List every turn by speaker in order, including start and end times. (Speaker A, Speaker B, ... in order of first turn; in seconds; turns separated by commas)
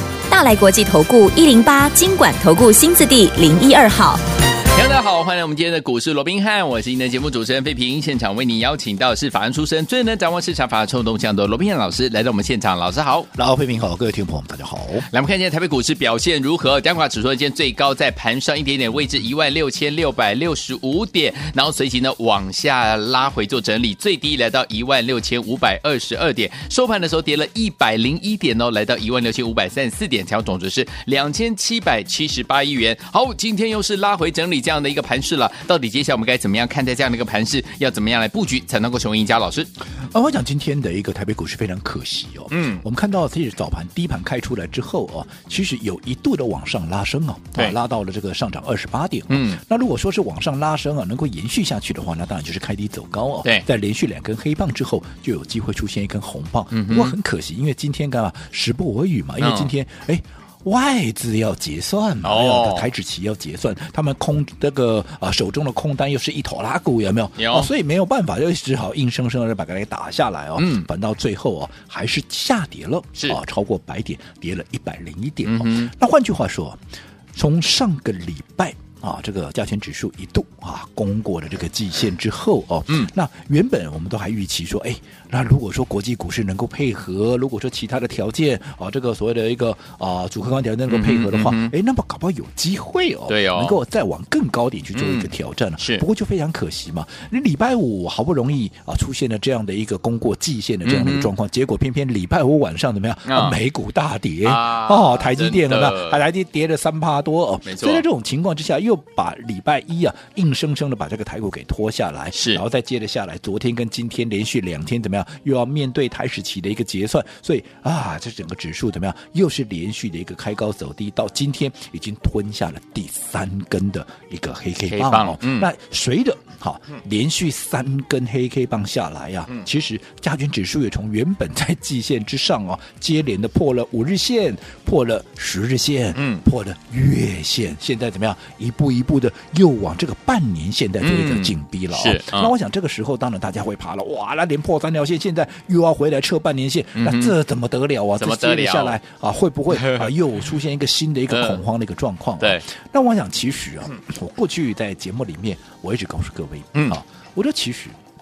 Speaker A: 0.3-4.2, Speaker B: 4.7-13.3, Speaker C: 13.3-15.1, Speaker B: 15.1-39.7, Speaker C: 40.0-76.8, Speaker B: 42.5-42.8, Speaker B: 49.3-49.6, Speaker B: 56.7-57.2, Speaker B: 59.4-59.7, Speaker B: 62.2-62.9, Speaker B: 67.4-67.7, Speaker B: 70.6-70.9, Speaker B: 75.5-75.9, Speaker C: 77.3-158.0, Speaker B: 90.9-91.7, Speaker B: 93.3-93.8, Speaker B: 95.0-96.0, Speaker B: 100.8-101.3, Speaker B: 103.3-103.6, Speaker B: 104.4-106.2, Speaker B: 107.7-108.0, Speaker B: 112.3-112.6, Speaker B: 124.9-125.7, Speaker B: 136.2-136.4, Speaker B: 141.0-142.5, Speaker B: 146.9-147.3, Speaker B: 148.2-149.0, Speaker B: 149.7-150.1, Speaker B: 151.3-151.6